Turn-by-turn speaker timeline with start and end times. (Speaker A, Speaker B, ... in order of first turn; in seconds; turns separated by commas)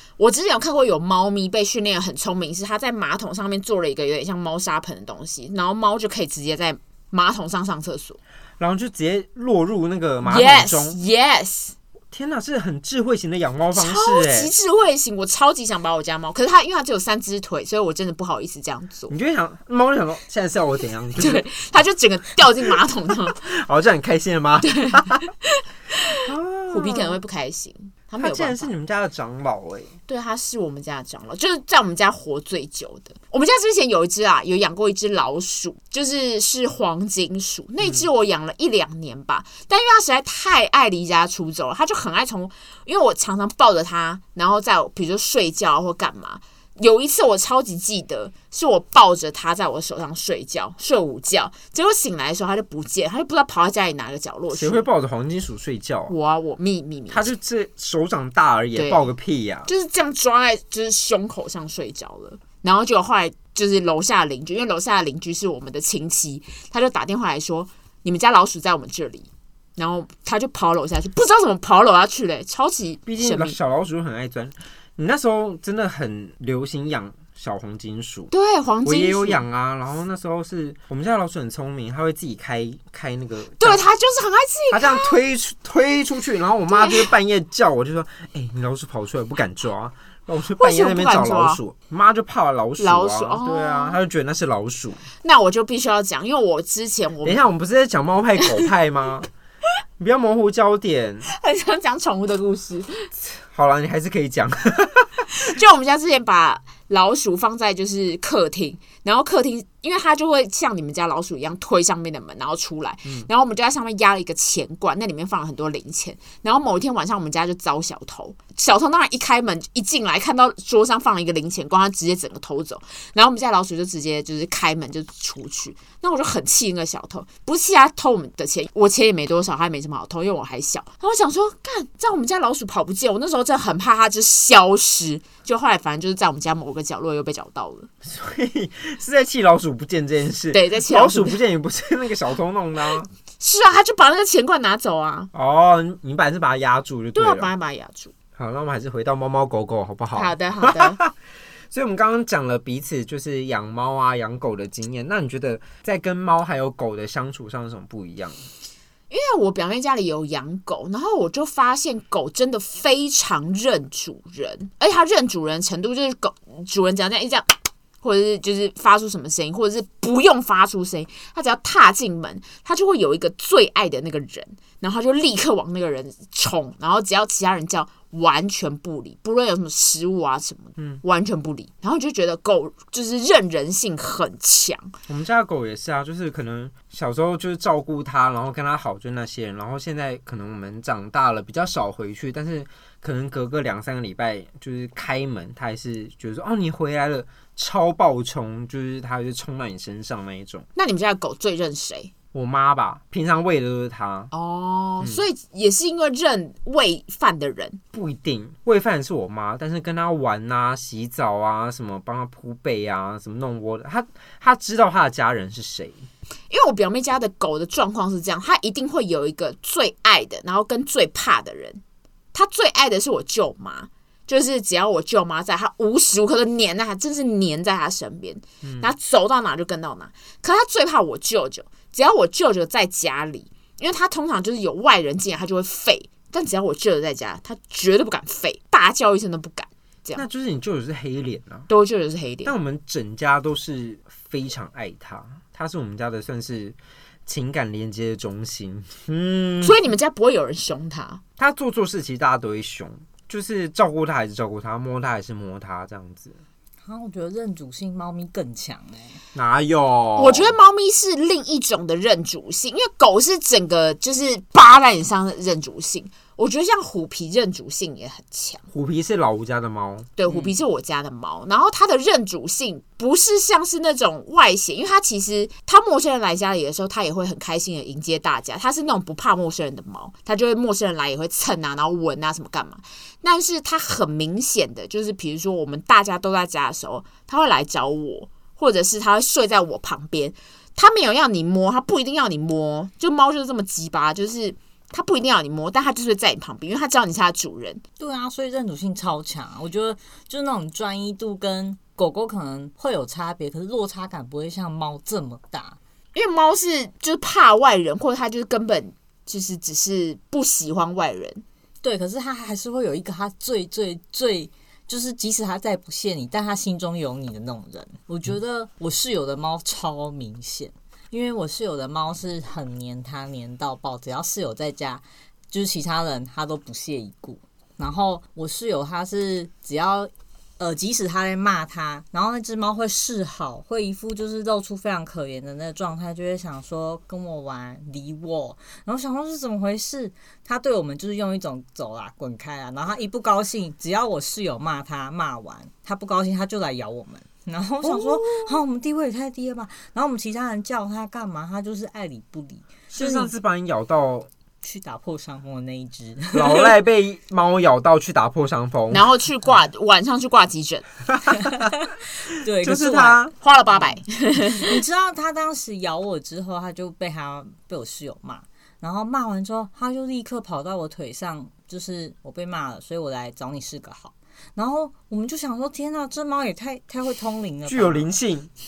Speaker A: 0.2-8.2, Speaker B: 8.6-11.0, Speaker A: 10.2-11.8, Speaker B: 12.1-14.5, Speaker A: 13.7-19.1, Speaker B: 19.1-21.5, Speaker A: 21.2-23.4, Speaker B: 23.3-25.3, Speaker A: 24.6-28.7, Speaker B: 26.2-27.2, Speaker B: 28.2-29.9, Speaker A: 30.1-54.9, Speaker B: 54.5-56.1, Speaker A: 56.1-57.3, Speaker B: 57.1-59.7, Speaker A: 58.7-59.1, Speaker A: 59.7-73.6, Speaker B: 73.1-78.3, Speaker A: 78.3-79.4, Speaker B: 78.8-83.8, Speaker A: 83.6-85.1, Speaker B: 84.7-95.0, Speaker A: 86.7-87.1, Speaker A: 90.6-91.6, Speaker A: 92.8-94.0, Speaker A: 95.2-97.4, Speaker B: 97.2-99.3, Speaker B: 100.0-101.3, Speaker A: 101.3-103.1, Speaker B: 103.2-105.3, Speaker A: 105.3-137.9, Speaker B: 138.0-143.1, Speaker A: 140.5-141.3, Speaker A: 143.4-145.3, Speaker B: 145.3-147.5, Speaker A: 147.2-148.1, Speaker B: 148.4-151.1, Speaker A: 150.1-151.0, Speaker B: 151.7-158.4, Speaker A: 159.1-167.5, Speaker A: 168.0-184.9, Speaker B: 180.8-181.0, Speaker B: 185.1-200.7, Speaker A: 200.8-202.1, Speaker B: 202.3-204.3, Speaker A: 204.3-207.8, Speaker B: 207.9-216.0, Speaker A: 216.5-221.8, Speaker A: 222.3-240.2, Speaker B: 228.6-228.9, Speaker B: 240.2-241.7, Speaker A: 241.7-242.5, Speaker B: 242.4-249.8, Speaker A: 249.6-251.2, Speaker B: 251.4-256.4, Speaker C: 256.9-259.2, Speaker B: 259.4-260.6, Speaker A: 260.2-268.7, Speaker B: 268.7-270.6, Speaker A: 270.2-297.8, Speaker C: 298.0-305.8, Speaker A: 306.1-311.4, Speaker C: 311.8-353.3, Speaker B: 347.8-348.6, Speaker B: 352.9-354.3, Speaker C: 354.6-356.8, Speaker B: 356.3-359.1, Speaker A: 358.9-360.9, Speaker B: 361.1-361.6, Speaker C: 361.4-363.2, Speaker B: 362.6-363.3, Speaker A: 363.4-364.8, Speaker C: 364.6-378.1, Speaker B: 377.7-378.5